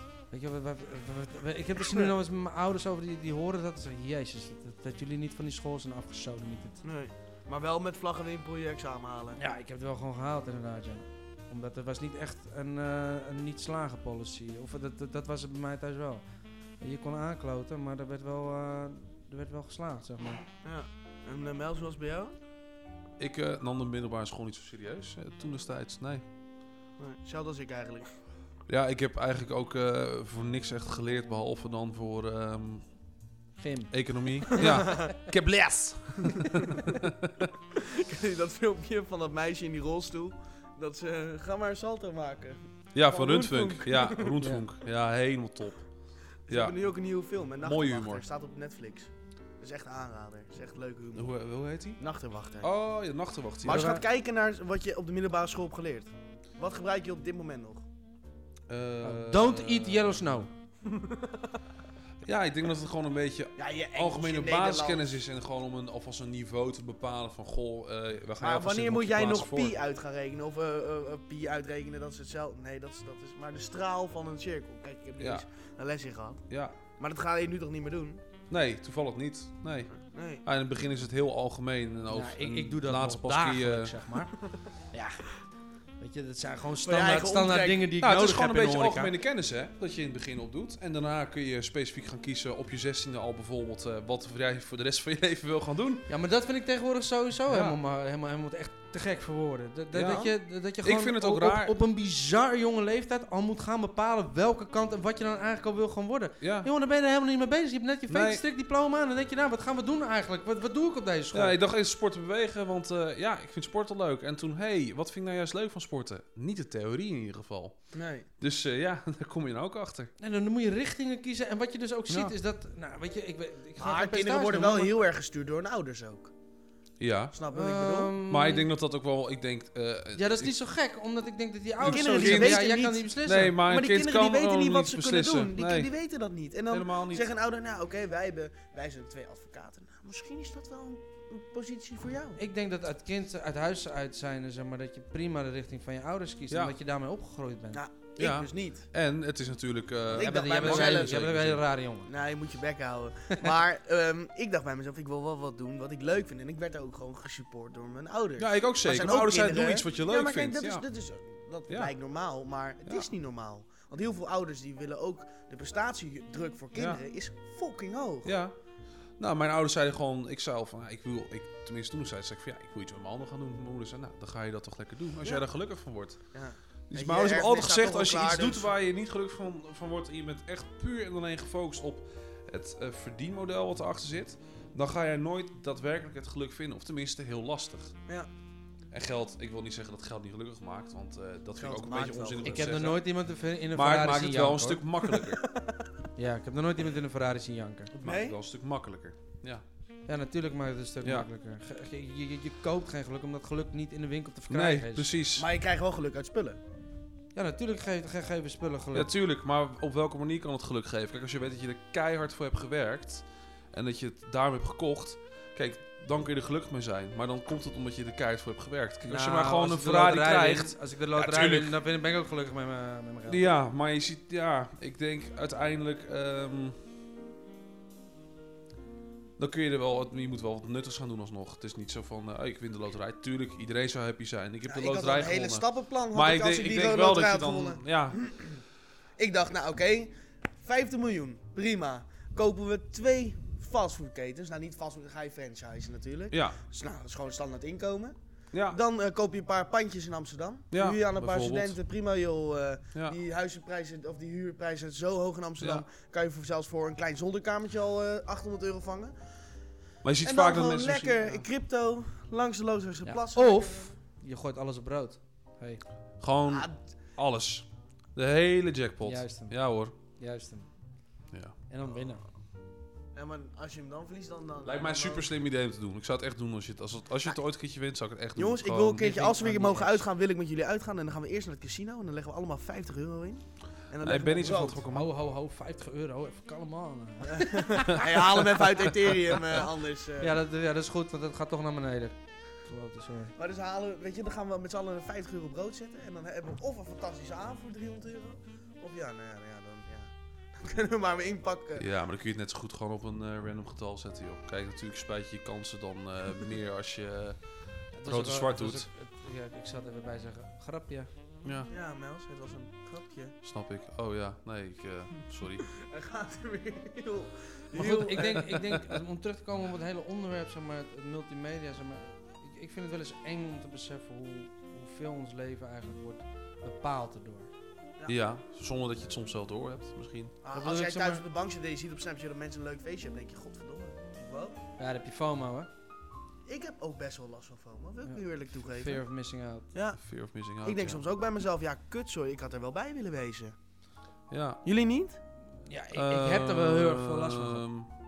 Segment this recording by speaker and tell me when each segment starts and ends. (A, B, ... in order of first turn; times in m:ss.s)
0:00.3-0:06.8 A
0:06.8-0:09.4 B
0:09.4-0:16.2 A
0:16.8-0:20.4 A
0:20.6-0:22.3 B
0:23.2-0:26.2 C
0:27.0-0:28.1 B
0:28.7-0:32.9 C
0:33.6-0:35.0 A
0:33.9-0:37.5 C
0:34.6-0:35.1 B
0:37.7-0:44.4 B
0:42.9-0:45.9 C
0:44.4-0:44.7 A
0:46.5-0:51.4 B
0:46.5-0:46.8 C
0:47.6-0:48.2 C
0:51.1-0:52.0 C
0:52.0-0:52.7 B
0:52.6-0:54.0 C
0:53.6-0:57.8 B
0:53.7-0:54.0 A
0:58.7-1:00.4 C
0:59.0-1:00.5 A
1:00.8-1:01.6 B
1:02.2-1:09.8 C
1:03.6-1:05.2 B
1:08.4-1:16.4 B
1:15.2-1:15.4 C
1:16.5-1:16.7 C
1:17.0-1:18.2 B
1:18.5-1:24.0 C
1:19.9-1:20.4 B
1:22.1-1:24.3 A
1:24.9-1:25.3 A
1:26.0-1:29.1 A
1:26.8-1:27.9 B
1:28.0-1:36.1 C
1:36.1-1:51.6 A
1:37.5-1:37.8 C
1:39.9-1:41.7 C
1:46.4-1:46.7 C
1:48.1-1:48.4 C
1:51.3-1:57.9 C
1:57.9-1:58.2 B
1:58.4-2:00.1 C
2:00.2-2:04.9 A
2:03.8-2:06.3 B
2:07.0-2:07.3 C
2:07.3-2:08.1 B
2:07.5-2:08.7 A
2:08.3-2:10.5 C
2:10.2-2:13.5 A
2:11.8-2:15.9 C
2:11.9-2:13.1 B
2:13.6-2:22.4 B
2:16.7-2:17.2 C
2:22.4-2:27.8 A
2:26.5-2:26.7 C
2:27.7-2:28.8 B
2:28.2-2:31.6 C
2:30.1-2:31.3 B
2:30.2-2:32.1 A
2:32.1-2:48.3 B
2:38.4-2:40.8 C
2:41.7-2:41.9 C
2:42.8-2:43.1 C
2:46.7-2:47.0 C
2:48.2-2:48.5 C
2:49.2-3:08.0 C
2:55.2-2:55.4 B
2:56.3-2:58.7 B
3:08.9-3:13.0 C
3:11.6-3:12.6 B
3:12.4-3:14.8 A
3:13.7-3:15.4 C
3:15.1-3:15.9 B
3:16.2-3:17.9 A
3:17.9-3:18.4 B
3:18.0-3:19.6 C
3:20.1-3:25.1 A
3:24.5-3:25.5 C
3:25.4-3:26.6 B
3:27.3-3:29.1 A
3:28.9-3:41.8 C
3:39.0-3:43.4 A
3:43.3-3:46.8 C
3:49.4-3:58.2 C
3:54.7-3:58.6 B
3:59.2-4:08.2 B
4:06.3-4:06.6 C
4:08.5-4:08.8 C
4:08.7-4:19.2 B
4:10.7-4:11.8 C
4:15.6-4:15.8 C
4:20.0-4:21.4 C
4:20.2-4:23.9 B
4:23.0-4:25.8 A
4:26.2-4:29.9 C
4:26.5-4:26.7 B
4:29.0-4:30.7 A
4:31.7-4:32.2 A
4:33.1-4:35.3 B
4:34.6-4:39.2 C
4:38.4-4:44.8 B
4:39.0-4:40.0 A
4:44.0-4:45.1 C
4:44.9-4:48.8 A
4:47.2-4:50.4 B
4:50.2-4:53.3 A
4:53.3-5:01.8 B
5:01.8-5:08.9 C
5:08.0-5:11.1 A
5:11.4-5:11.7 C
5:11.7-5:13.3 B
5:13.4-5:15.7 C
5:15.7-5:18.4 B
5:17.7-5:27.5 A
5:18.0-5:18.8 C
5:28.1-5:30.4 C
5:30.4-5:34.6 B
5:30.5-5:31.2 A
5:34.8-5:35.7 A
5:36.4-5:39.0 B
5:38.1-5:39.7 A
5:39.7-5:40.0 B
5:40.0-5:41.0 C
5:40.6-5:43.5 B
5:44.3-5:44.6 C
5:44.6-5:45.2 B
5:45.6-5:47.6 A
5:45.9-5:47.9 C